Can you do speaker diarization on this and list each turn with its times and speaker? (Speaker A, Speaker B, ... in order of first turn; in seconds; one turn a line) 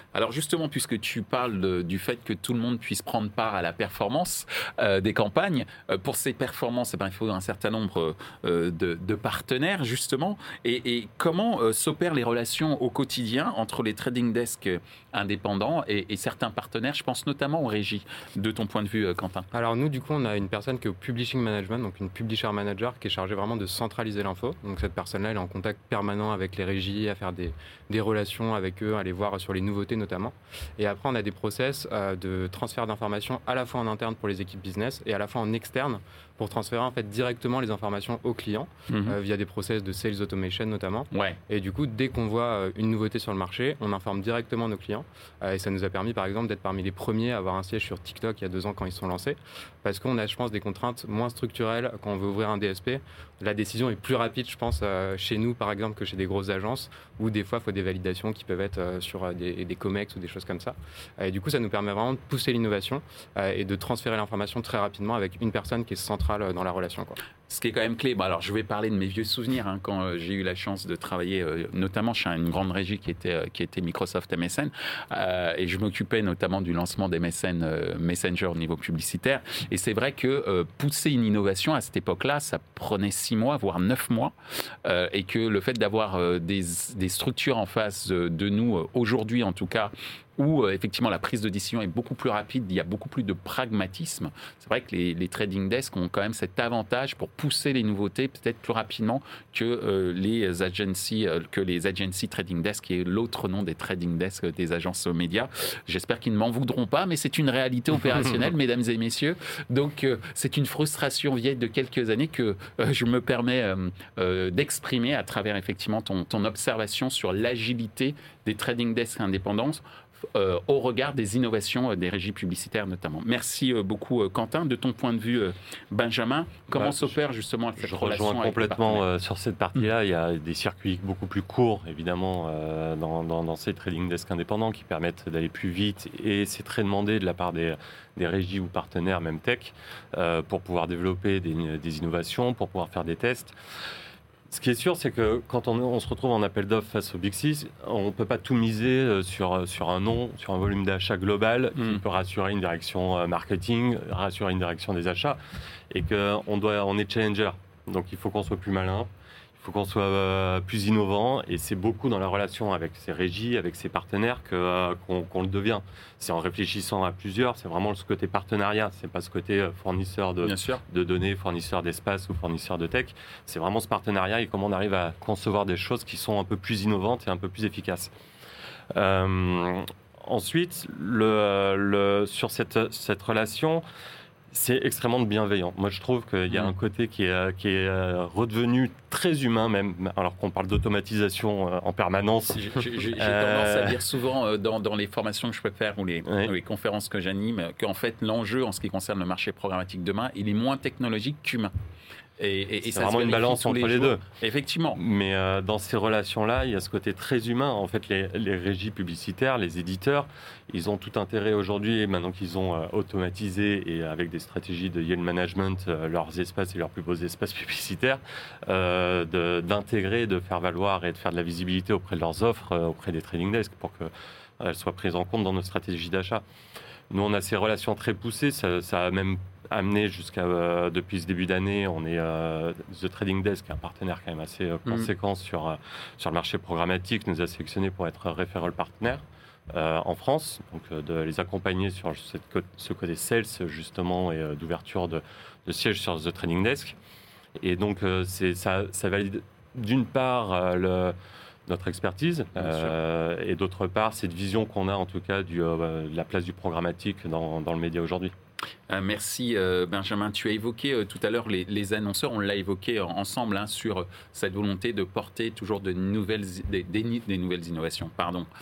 Speaker A: 0.1-19.5
Speaker B: 19.5-67.2
Speaker A: 38.9-39.2
Speaker A: 41.1-41.4
Speaker A: 67.5-129.0
Speaker C: 126.7-127.2
Speaker C: 127.8-143.6
Speaker C: 144.5-155.4
Speaker C: 155.9-178.1
Speaker A: 170.4-170.8
Speaker C: 178.9-183.8
Speaker C: 184.5-194.0
Speaker A: 192.5-201.7
Speaker C: 196.2-196.5
Speaker A: 202.4-205.0
Speaker C: 202.8-204.2
Speaker C: 204.9-226.4
Speaker C: 227.1-247.0
Speaker C: 247.6-251.2
Speaker C: 251.7-258.3
Speaker A: 252.6-252.9
Speaker A: 258.9-268.5